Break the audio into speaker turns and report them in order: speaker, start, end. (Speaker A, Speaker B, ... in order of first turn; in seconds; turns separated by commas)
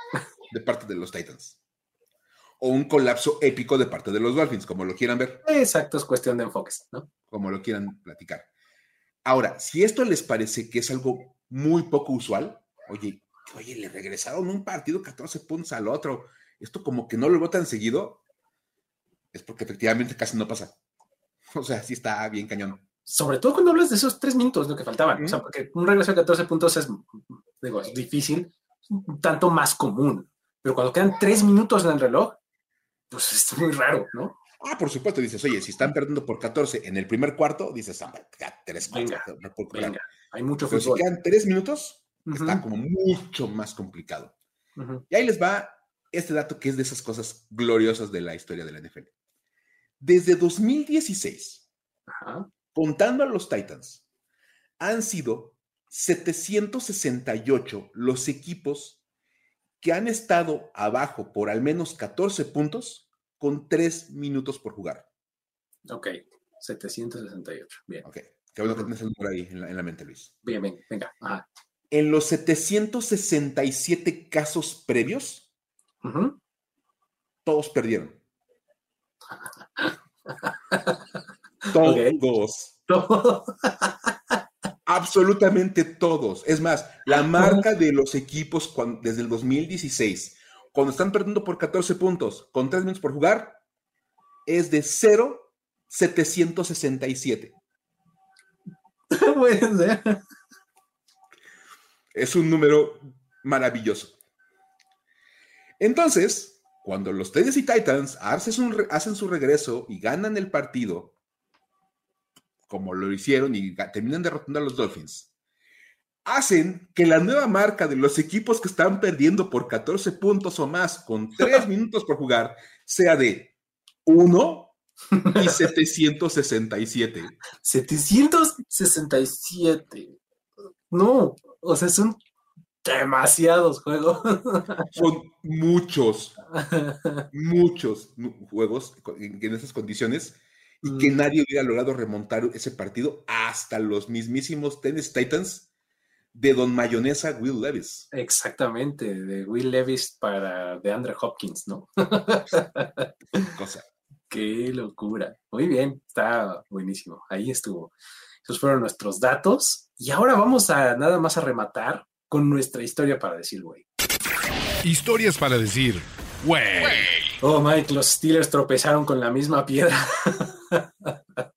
Speaker A: 0.5-1.6, Speaker A: 2.6-5.4, Speaker B: 5.5-7.1, Speaker A: 7.3-8.4, Speaker A: 9.2-18.2, Speaker A: 19.3-20.8, Speaker A: 21.5-22.8, Speaker B: 23.1-32.4, Speaker A: 25.1-25.4, Speaker B: 33.1-34.4, Speaker A: 34.6-39.9, Speaker B: 38.9-41.0, Speaker A: 40.7-44.3, Speaker B: 42.2-42.6, Speaker B: 44.8-45.0, Speaker A: 45.1-49.1, Speaker A: 50.0-51.6, Speaker B: 52.1-52.5, Speaker A: 52.7-54.0, Speaker A: 54.8-59.0, Speaker A: 59.8-65.1, Speaker B: 65.9-68.0, Speaker A: 68.0-70.4, Speaker B: 70.4-71.5, Speaker A: 71.9-75.4, Speaker B: 76.0-76.4, Speaker A: 77.4-78.2, Speaker B: 79.8-81.0, Speaker B: 81.7-82.2, Speaker A: 81.7-82.7, Speaker B: 82.9-84.4, Speaker A: 84.8-93.6, Speaker B: 87.3-87.6, Speaker A: 94.5-97.5, Speaker B: 99.1-100.2, Speaker A: 102.1-104.1, Speaker A: 105.8-111.1, Speaker A: 112.7-115.3, Speaker A: 116.2-123.5, Speaker A: 124.0-124.7, Speaker B: 125.1-125.7, Speaker A: 125.3-127.3, Speaker B: 127.6-130.2, Speaker B: 130.9-132.2, Speaker B: 132.8-134.9, Speaker A: 134.9-136.4, Speaker B: 136.5-137.3, Speaker A: 137.3-145.7, Speaker B: 140.8-141.2, Speaker A: 146.3-148.1, Speaker B: 148.1-153.5, Speaker A: 153.4-153.8, Speaker B: 154.3-157.9, Speaker B: 158.4-163.8, Speaker C: 164.8-167.2, Speaker B: 167.4-171.4